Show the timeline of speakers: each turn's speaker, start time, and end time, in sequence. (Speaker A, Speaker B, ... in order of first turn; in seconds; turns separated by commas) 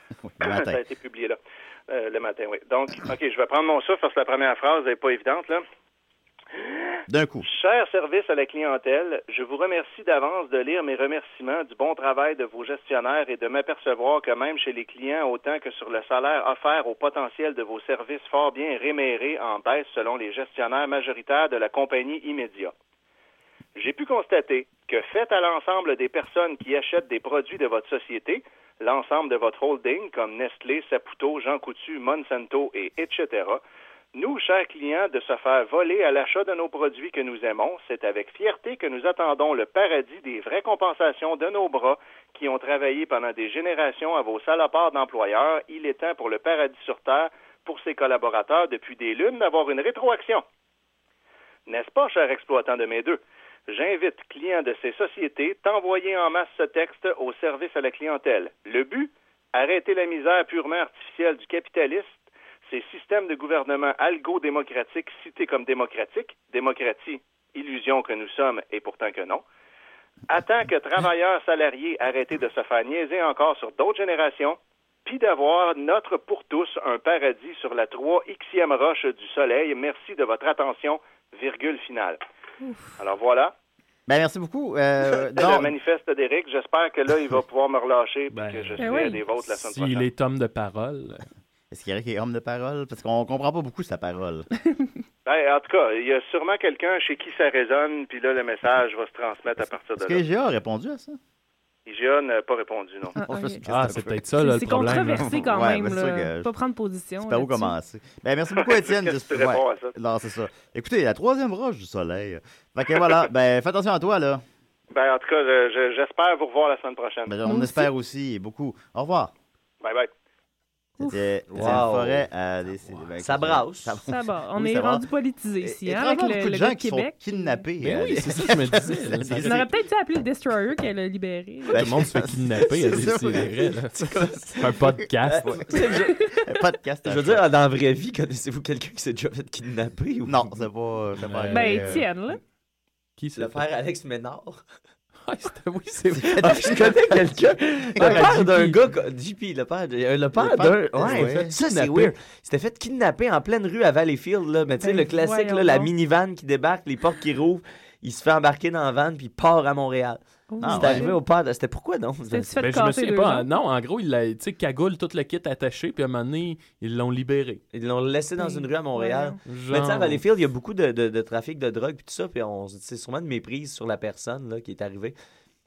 Speaker A: 0.2-0.8, Speaker B: 0.4-5.6, Speaker B: 6.5-22.7, Speaker A: 7.1-7.5, Speaker B: 23.8-33.6, Speaker B: 34.1-50.4, Speaker B: 51.7-69.4, Speaker B: 70.3-82.2, Speaker C: 82.6-82.9, Speaker B: 83.0-83.5, Speaker A: 84.1-85.7, Speaker B: 85.3-90.1, Speaker D: 88.3-91.2, Speaker C: 88.8-89.2, Speaker A: 91.7-94.5, Speaker B: 95.2-100.2, Speaker A: 100.0-101.2, Speaker B: 101.8-103.2, Speaker C: 103.2-103.6, Speaker A: 103.2-104.2, Speaker D: 103.7-105.3, Speaker C: 104.4-107.7, Speaker A: 105.0-106.5, Speaker A: 107.2-114.4, Speaker B: 108.5-109.9, Speaker B: 114.9-117.3, Speaker A: 117.3-119.3, Speaker C: 117.4-117.9, Speaker B: 119.8-120.1, Speaker A: 121.0-125.0, Speaker E: 121.5-122.2, Speaker E: 123.2-124.0, Speaker C: 124.0-127.6, Speaker A: 125.6-129.7, Speaker D: 127.8-129.7, Speaker C: 129.4-131.8, Speaker A: 131.7-133.7, Speaker D: 131.7-135.5, Speaker E: 134.0-134.7, Speaker E: 135.2-136.2, Speaker A: 135.4-137.4, Speaker E: 137.0-140.5, Speaker A: 140.2-142.0, Speaker D: 141.2-142.0, Speaker C: 141.5-142.4, Speaker D: 143.2-143.6, Speaker E: 143.3-144.6, Speaker D: 145.2-146.9, Speaker A: 146.2-147.0, Speaker E: 146.3-162.6, Speaker A: 148.0-148.3, Speaker D: 148.0-148.8, Speaker A: 150.3-151.6, Speaker D: 151.6-152.1, Speaker C: 154.8-155.9, Speaker C: 160.5-161.2, Speaker A: 160.6-161.1, Speaker C: 162.3-163.5, Speaker D: 162.6-167.6, Speaker E: 167.7-175.1, Speaker C: 168.4-169.4, Speaker D: 169.4-170.2